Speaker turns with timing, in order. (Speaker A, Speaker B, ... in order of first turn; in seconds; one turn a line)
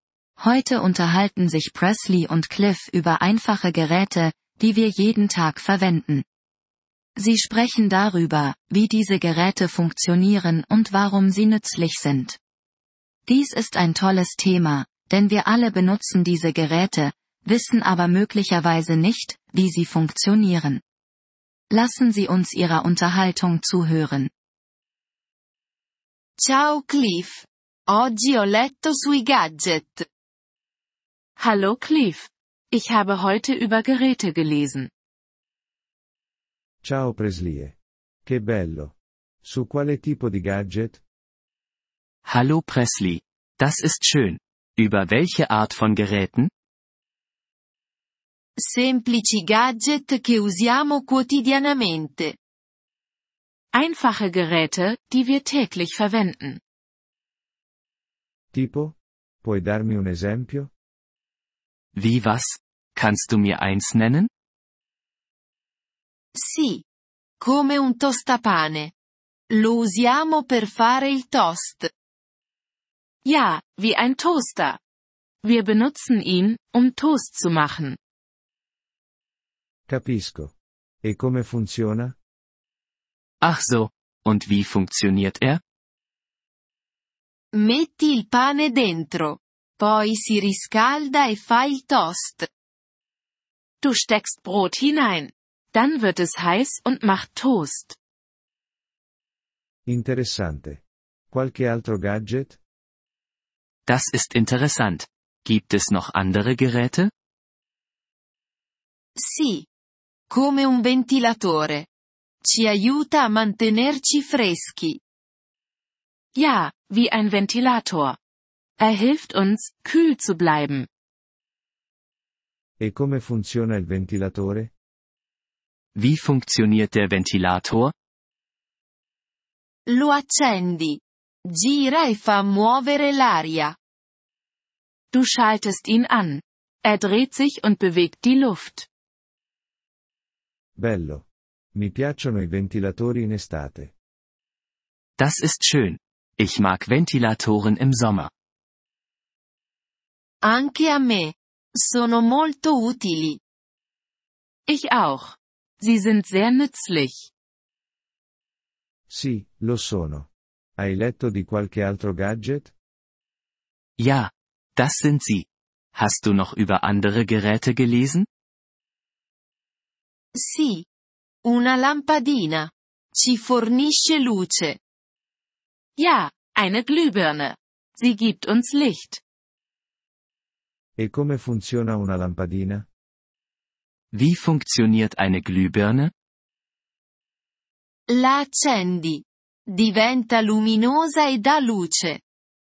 Speaker A: 0.4-6.2
Speaker A: 7.2-12.4
Speaker A: 13.2-20.8
Speaker A: 21.7-24.3
Speaker B: 26.4-30.1
Speaker C: 31.4-34.9
Speaker D: 36.8-41.0
Speaker E: 42.2-46.5
Speaker B: 48.6-52.4
Speaker C: 53.7-56.6
Speaker D: 58.5-60.7
Speaker E: 61.9-64.3
Speaker B: 66.3-66.8
Speaker B: 67.4-68.9
Speaker B: 69.5-71.9
Speaker C: 73.2-74.8
Speaker C: 75.4-78.0
Speaker D: 79.9-82.2
Speaker E: 83.4-85.6
Speaker B: 87.5-92.5
Speaker C: 93.8-98.0
Speaker D: 99.8-102.6
Speaker E: 103.9-107.1
Speaker B: 109.2-109.7
Speaker B: 110.3-111.9
Speaker B: 112.4-115.0
Speaker C: 116.3-118.2
Speaker C: 118.8-120.9
Speaker D: 122.8-124.7
Speaker E: 125.9-127.9
Speaker B: 129.9-133.8
Speaker C: 135.1-138.9
Speaker D: 140.8-143.9
Speaker E: 145.2-148.3
Speaker B: 150.4-153.4
Speaker C: 154.7-157.3
Speaker D: 159.1-162.7
Speaker E: 164.0-168.3
Speaker B: 170.3-170.8
Speaker B: 171.4-174.8
Speaker C: 176.0-179.2
Speaker D: 181.0-182.9
Speaker E: 184.1-186.1
Speaker B: 188.1-192.2